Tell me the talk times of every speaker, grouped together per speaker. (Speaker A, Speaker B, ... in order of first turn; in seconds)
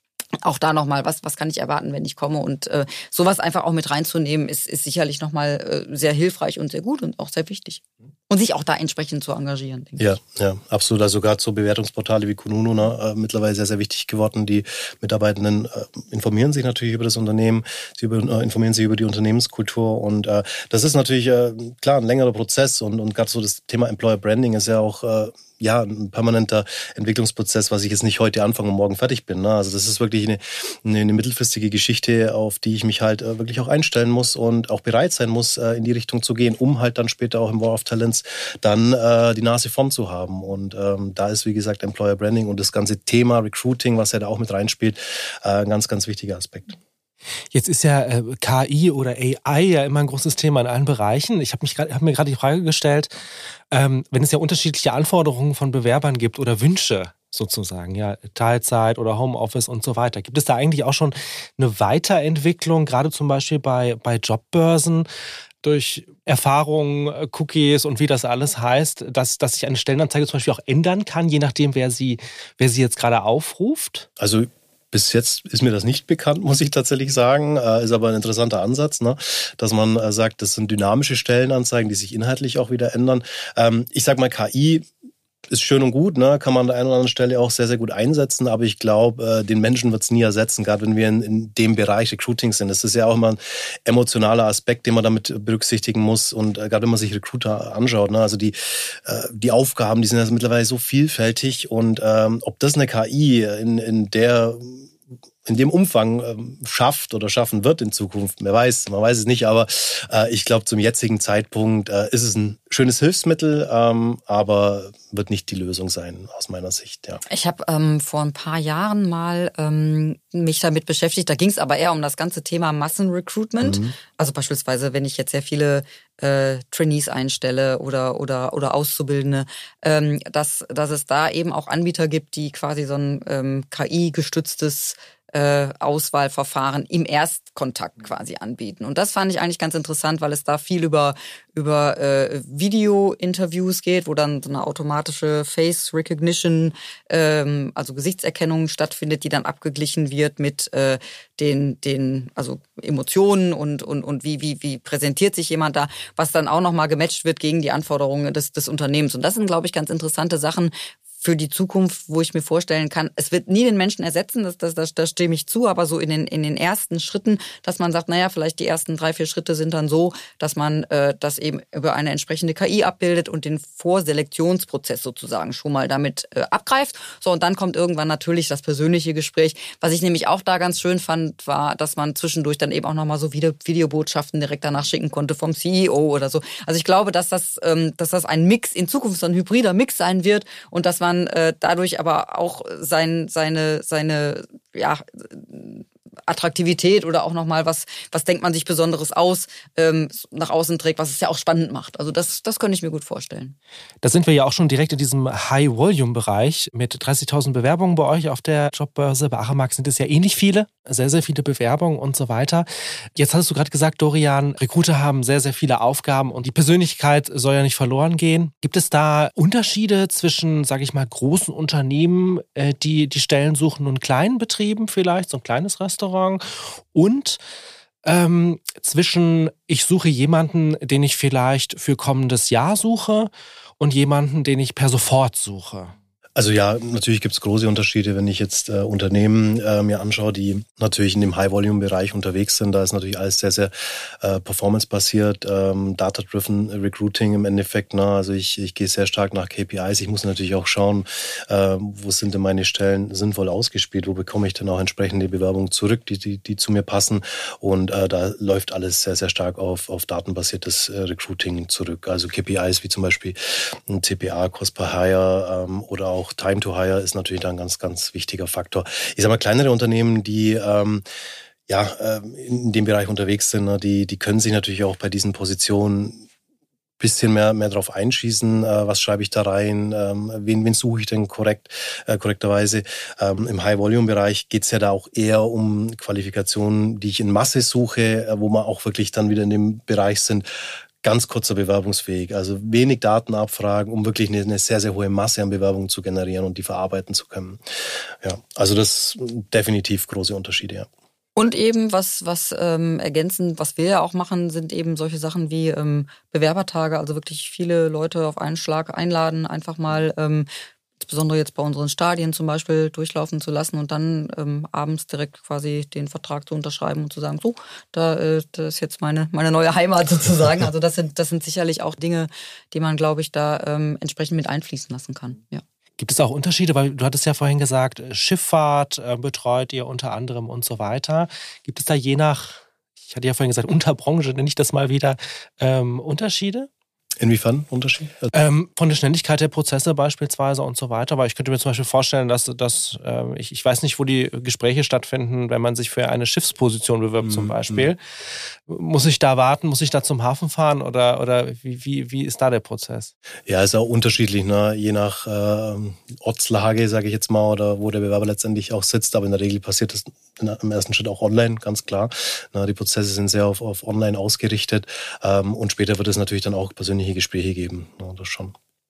Speaker A: 0.4-10.1, 117.3-203.6, 301.4-310.5, 311.0-325.6
Speaker B: 10.0-46.8, 74.2-84.9, 85.5-104.9, 105.5-117.2, 123.6-124.0, 236.4-271.0, 271.7-276.2, 277.0-290.5, 291.0-300.9, 337.2-338.3, 347.3-347.9, 353.5-368.6
Speaker C: 47.5-53.1, 53.7-65.1, 65.6-74.1, 204.0-227.4, 228.0-235.9, 326.0-336.7, 338.3-348.0, 348.7-353.1